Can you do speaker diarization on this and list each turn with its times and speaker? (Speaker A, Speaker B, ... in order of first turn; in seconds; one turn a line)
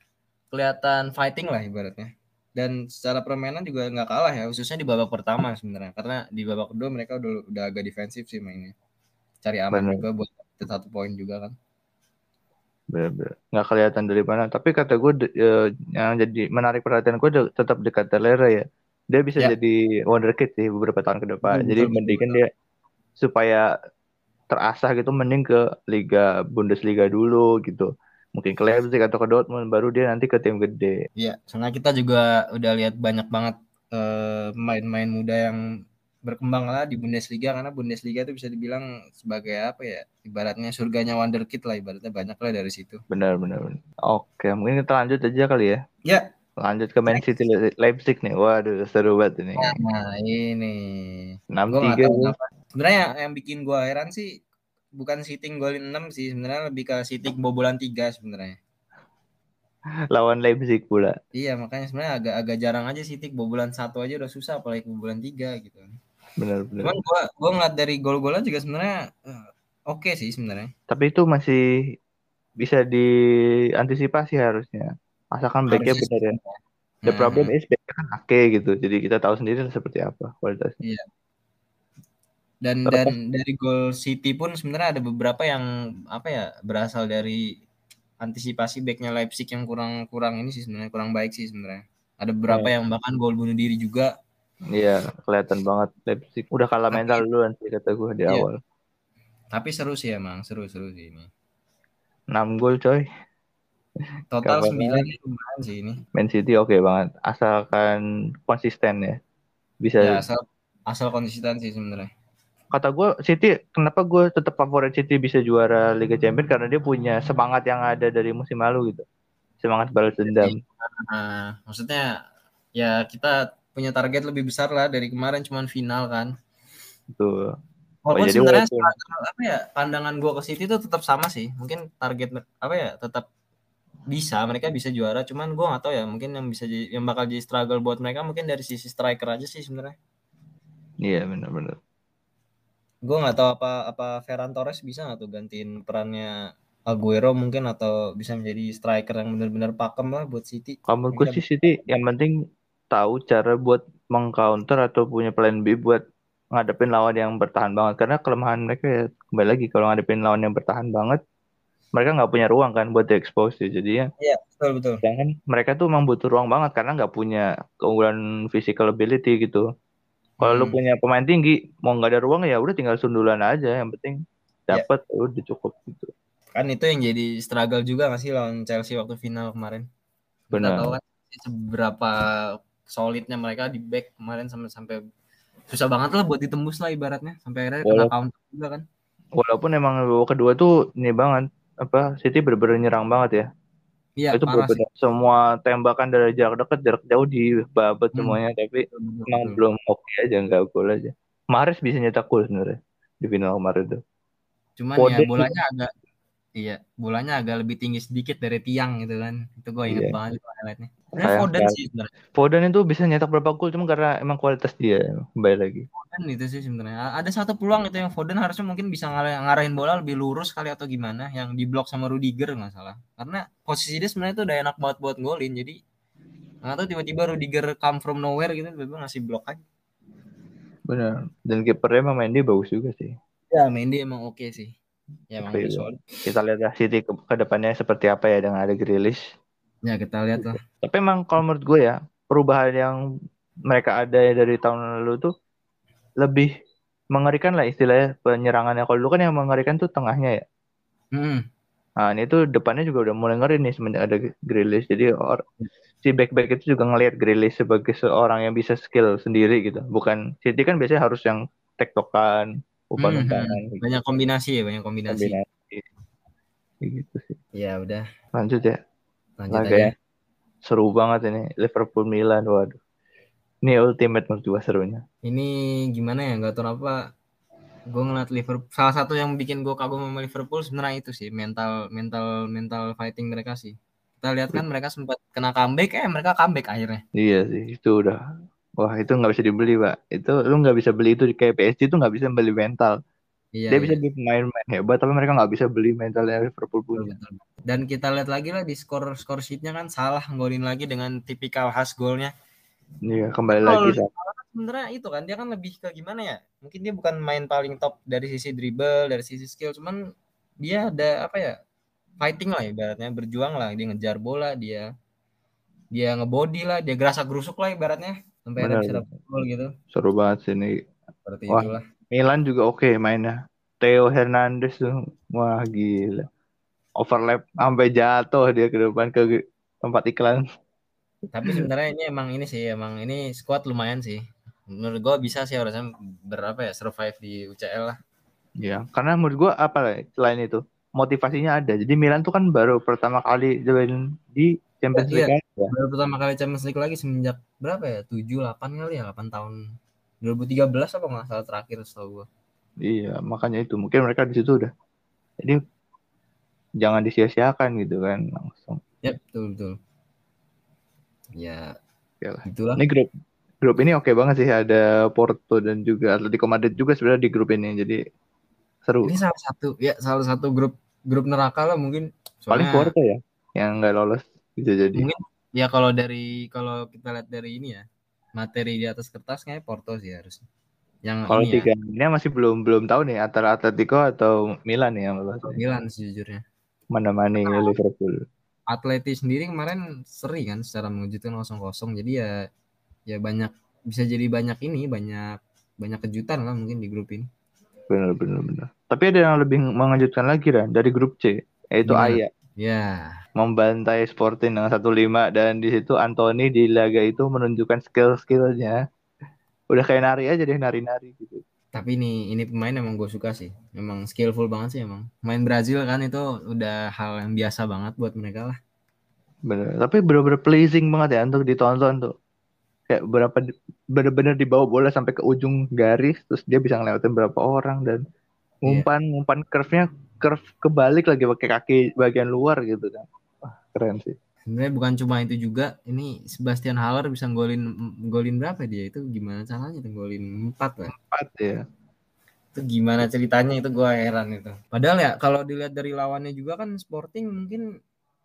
Speaker A: 0.5-8.7
Speaker A: 9.4-11.5
Speaker B: 9.7-10.0
Speaker B: 12.9-22.5
Speaker A: 21.5-22.4
Speaker B: 23.2-23.6
Speaker B: 24.5-30.9
Speaker A: 31.2-35.6
Speaker A: 36.2-43.0
Speaker B: 43.1-45.8
Speaker B: 46.6-49.7
Speaker A: 49.6-54.3
Speaker B: 51.6-52.4
Speaker A: 55.0-58.6
Speaker B: 60.1-61.1
Speaker A: 61.4-65.9
Speaker B: 66.4-66.9
Speaker A: 66.8-70.7
Speaker B: 70.9-71.6
Speaker B: 72.6-73.1
Speaker B: 73.8-76.4
Speaker A: 75.7-77.5
Speaker B: 77.1-80.8
Speaker A: 82.6-87.5
Speaker A: 88.2-94.1
Speaker B: 94.8-98.6
Speaker A: 96.9-97.2
Speaker A: 99.5-101.3
Speaker B: 102.3-103.0
Speaker A: 104.3-106.0
Speaker B: 104.5-105.1
Speaker B: 106.1-109.2
Speaker B: 109.8-110.2
Speaker A: 110.0-112.1
Speaker B: 112.7-119.0
Speaker B: 119.6-120.5
Speaker A: 120.2-122.1
Speaker A: 122.8-126.3
Speaker B: 127.1-127.5
Speaker A: 128.1-133.2
Speaker B: 128.1-128.9
Speaker A: 134.1-139.9
Speaker B: 141.0-141.8
Speaker A: 143.1-146.3
Speaker A: 146.9-151.4
Speaker B: 150.9-152.3
Speaker B: 152.9-156.0
Speaker B: 156.5-161.2
Speaker B: 162.0-164.0
Speaker A: 164.2-165.0
Speaker B: 165.0-169.6
Speaker A: 170.4-170.8
Speaker B: 170.4-174.2
Speaker B: 174.7-176.1
Speaker A: 176.5-179.8
Speaker A: 180.5-185.0
Speaker B: 180.5-180.9
Speaker A: 185.7-188.8
Speaker B: 187.8-188.1
Speaker B: 189.4-193.4
Speaker A: 194.2-194.8
Speaker B: 194.3-204.0
Speaker A: 198.9-199.6
Speaker A: 204.8-205.9
Speaker B: 205.0-205.5
Speaker A: 206.6-212.1
Speaker B: 211.2-211.8
Speaker B: 212.3-215.8
Speaker A: 215.9-225.8
Speaker A: 226.6-229.6
Speaker B: 230.9-233.1
Speaker A: 233.5-234.7
Speaker A: 235.3-236.0
Speaker B: 235.5-239.2
Speaker A: 239.8-240.6
Speaker B: 240.4-243.0
Speaker B: 243.7-245.3
Speaker B: 246.2-246.5
Speaker B: 247.1-250.4
Speaker A: 251.2-251.4
Speaker B: 252.0-255.4
Speaker B: 256.0-263.8
Speaker A: 263.0-265.4
Speaker B: 265.1-265.8
Speaker B: 266.8-267.4
Speaker A: 267.5-268.0
Speaker B: 268.3-268.8
Speaker A: 269.4-269.9
Speaker B: 269.5-269.9
Speaker B: 270.6-272.8
Speaker B: 273.6-275.0
Speaker A: 275.2-277.0
Speaker A: 277.9-287.0
Speaker B: 287.2-288.2
Speaker B: 288.8-293.0
Speaker A: 293.6-294.0
Speaker B: 293.7-297.1
Speaker A: 296.9-302.3
Speaker B: 303.1-304.1
Speaker A: 303.5-310.0
Speaker A: 310.6-311.5
Speaker A: 312.2-314.9
Speaker A: 315.9-319.7
Speaker B: 318.6-319.0
Speaker B: 319.9-320.7
Speaker A: 321.2-321.8
Speaker B: 321.5-326.3
Speaker B: 327.0-330.4
Speaker A: 331.3-337.9
Speaker B: 338.6-345.7
Speaker A: 344.9-349.5
Speaker A: 350.2-352.3
Speaker B: 352.9-354.7
Speaker B: 356.8-358.8
Speaker A: 359.0-359.8
Speaker A: 361.4-361.7
Speaker B: 362.2-363.1
Speaker A: 362.5-362.8
Speaker B: 363.6-368.0
Speaker B: 368.9-369.1
Speaker A: 369.1-372.9
Speaker B: 372.5-375.1
Speaker A: 375.0-377.8
Speaker A: 378.4-380.4
Speaker A: 381.1-381.7
Speaker B: 381.3-385.6
Speaker A: 385.4-386.4
Speaker B: 386.9-388.2
Speaker A: 387.4-387.7
Speaker A: 388.7-392.3
Speaker A: 393.1-397.3
Speaker B: 397.9-402.3
Speaker A: 401.9-403.1
Speaker B: 403.4-408.8
Speaker B: 409.7-411.4
Speaker A: 411.7-418.6
Speaker B: 419.5-422.1
Speaker B: 422.9-428.0
Speaker B: 428.7-434.1
Speaker A: 434.5-440.9
Speaker B: 441.0-441.6
Speaker A: 442.5-447.6